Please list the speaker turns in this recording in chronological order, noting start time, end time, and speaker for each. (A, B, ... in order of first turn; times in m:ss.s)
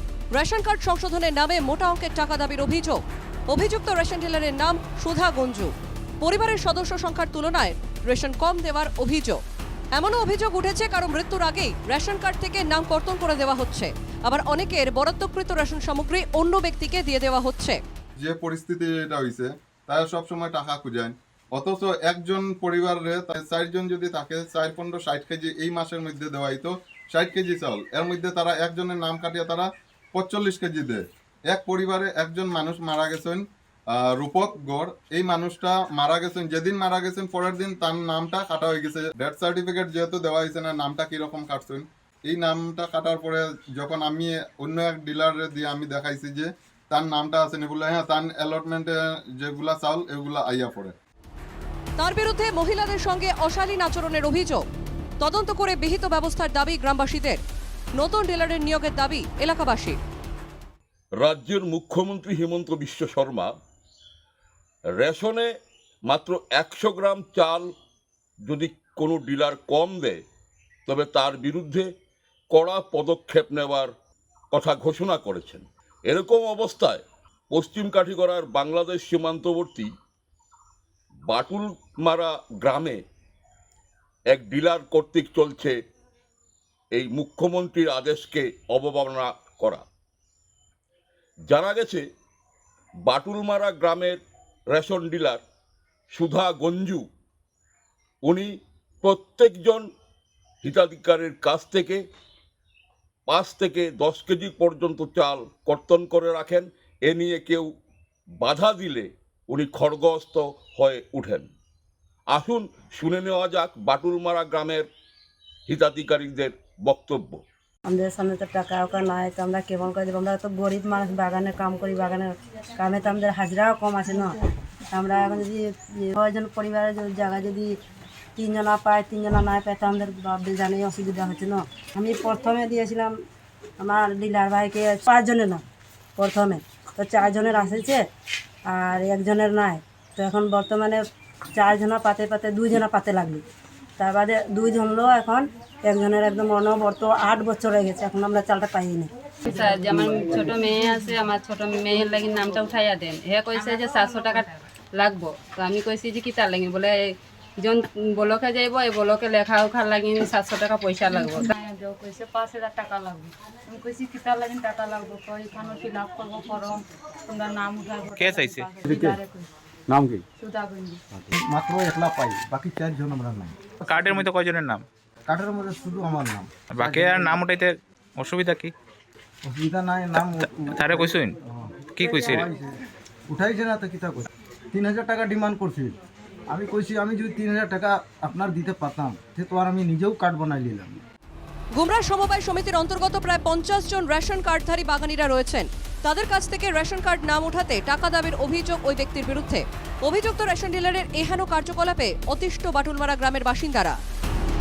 0:00.3-0:09.4 A
0:09.9-0:17.8 A
0:18.2-0:50.9 B
0:52.0-0:54.6 A
0:55.2-0:57.4 A
0:58.0-1:00.0 A
1:01.2-1:03.5 C
1:05.0-1:05.5 C
1:06.1-1:07.6 C
1:08.4-1:10.2 C
1:10.9-1:11.9 C
1:12.5-1:13.9 C
1:14.5-1:19.9 C
1:21.3-1:23.0 C
1:24.3-1:25.7 C
1:26.9-1:29.8 C
1:31.5-1:32.0 C
1:33.0-1:34.2 C
1:34.7-1:35.4 C
1:36.1-1:37.0 C
1:39.0-1:39.8 C
1:40.6-1:42.0 C
1:43.3-1:47.7 C
1:48.4-1:51.5 C
1:52.3-1:54.8 C
1:55.7-1:57.4 C
1:57.9-2:04.4 D
2:04.9-2:07.7 D
2:08.4-2:13.1 D
2:13.8-2:15.6 D
2:16.2-2:18.0 D
2:18.7-2:21.0 D
2:21.6-2:23.4 D
2:24.0-2:29.1 D
2:29.4-2:37.0 E
2:30.6-2:31.2 F
2:33.5-2:34.5 F
2:37.6-2:41.5 E
2:41.1-2:49.5 F
2:48.1-2:48.7 G
2:48.8-2:49.2 H
2:49.9-2:50.2 H
2:50.4-2:51.0 F
2:51.1-2:54.3 H
2:53.9-2:54.8 G
2:55.3-2:57.4 H
2:56.7-2:58.7 G
2:59.4-3:02.8 H
3:00.2-3:01.3 G
3:02.0-3:02.5 G
3:03.3-3:05.9 H
3:06.5-3:11.0 H
3:11.7-3:24.0 A